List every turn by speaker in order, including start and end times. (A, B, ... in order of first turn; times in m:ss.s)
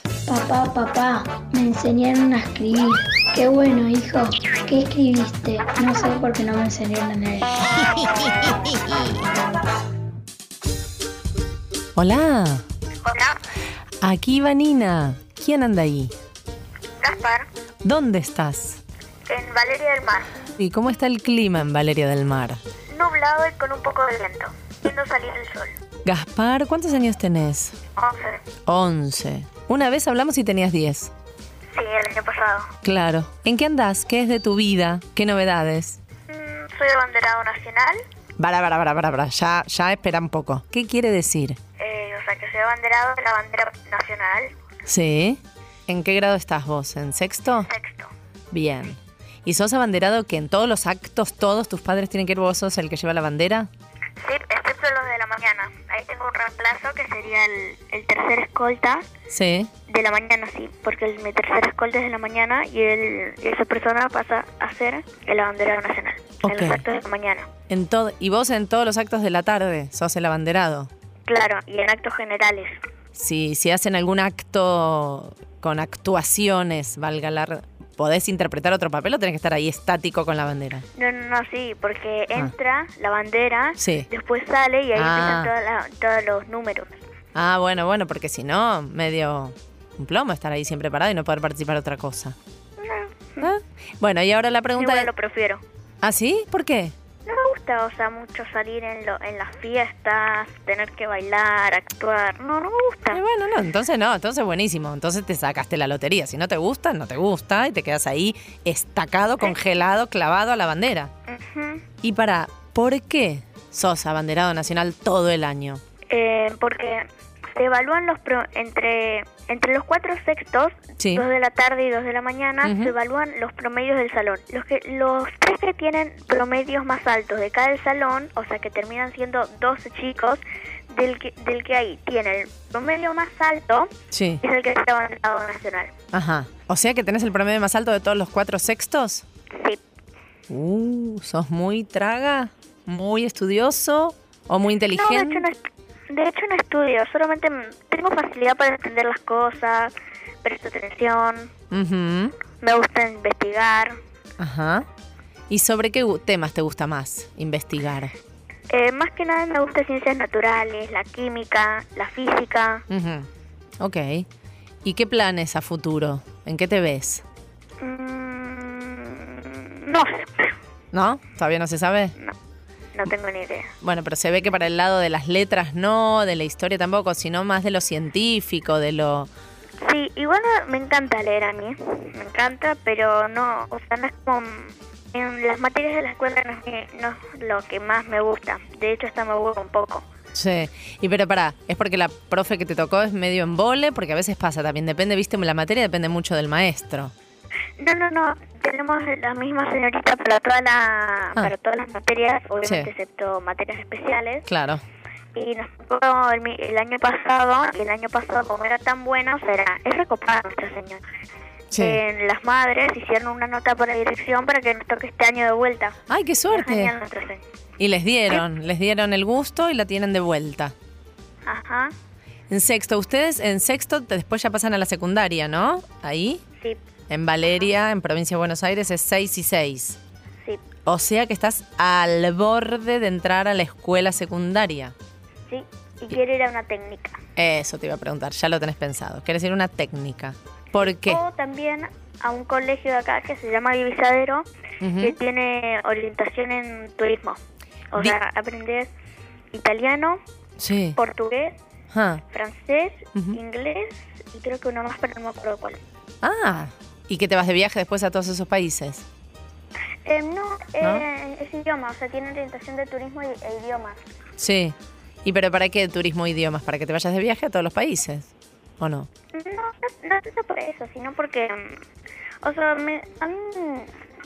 0:00.3-0:07.5 A
0:12.0-0:12.6 B
0:13.0-0:13.4 C
0:14.0-0:16.1 B
0:17.0-0:17.5 C
0:17.8-0:18.8 B
0:19.3-0:20.3 C
0:20.6-0:22.6 B
0:22.9-0:25.7 C
0:26.0-0:27.8 B
0:28.0-0:28.4 C
0:28.7-0:31.1 B
0:31.7-0:32.7 C
0:32.8-0:36.0 B
0:36.3-0:38.0 C
0:38.4-0:41.6 B
0:41.8-0:44.5 C
0:44.9-0:47.7 B
0:47.6-0:48.1 C
0:48.5-0:53.7 B
0:54.2-0:59.0 C
0:59.3-0:59.7 B
0:59.9-1:07.5 C
1:06.4-1:06.8 B
1:07.7-1:10.9 B
1:11.3-1:12.7 C
1:13.2-1:20.8 B
1:21.0-1:27.0 C
1:23.8-1:24.1 B
1:25.0-1:25.5 B
1:27.4-1:32.4 B
1:32.8-1:33.5 C
1:33.4-1:35.1 B
1:34.8-1:35.6 C
1:36.0-1:36.9 B
1:37.3-1:43.2 C
1:43.1-1:51.1 B
1:51.3-1:51.8 C
1:52.0-1:55.8 B
1:56.1-2:13.9 C
2:01.0-2:01.3 B
2:02.6-2:02.9 B
2:14.1-2:14.4 B
2:14.4-2:15.9 C
2:16.1-2:19.2 B
2:19.6-2:19.8 C
2:20.5-2:25.5 B
2:24.9-2:25.6 C
2:26.1-2:29.9 C
2:30.4-2:31.5 C
2:31.7-2:32.3 B
2:32.6-2:34.0 C
2:34.4-2:34.9 B
2:35.5-2:38.1 B
2:38.7-2:42.8 C
2:42.9-2:43.3 B
2:43.8-2:44.3 B
2:44.8-2:47.2 B
2:47.8-2:50.3 C
2:50.9-2:52.2 B
2:53.0-2:53.7 C
2:53.8-2:59.3 B
2:59.8-3:10.0 C
3:10.4-3:17.1 B
3:17.8-3:24.5 C
3:22.6-3:22.9 B
3:24.5-3:24.8 B
3:25.4-3:31.0 C
3:31.7-3:32.0 B
3:31.7-3:36.0 C
3:36.1-3:36.9 B
3:36.5-3:37.4 C
3:37.8-3:40.7 B
3:41.5-3:41.9 C
3:42.5-3:46.4 B
3:47.1-3:50.0 B
3:50.9-3:54.9 B
3:55.5-3:57.2 C
3:57.4-4:01.2 B
4:00.8-4:04.5 C
4:04.8-4:05.2 B
4:05.0-4:07.4 C
4:07.9-4:08.9 C
4:09.5-4:10.2 C
4:10.6-4:11.0 B
4:11.0-4:11.6 C
4:11.9-4:12.2 B
4:12.3-4:15.8 C
4:13.1-4:13.4 B
4:16.2-4:19.0 B
4:20.0-4:24.0 C
4:20.8-4:21.0 B
4:24.4-4:28.3 B
4:28.8-4:29.1 B
4:29.3-4:31.8 C
4:32.4-4:33.9 C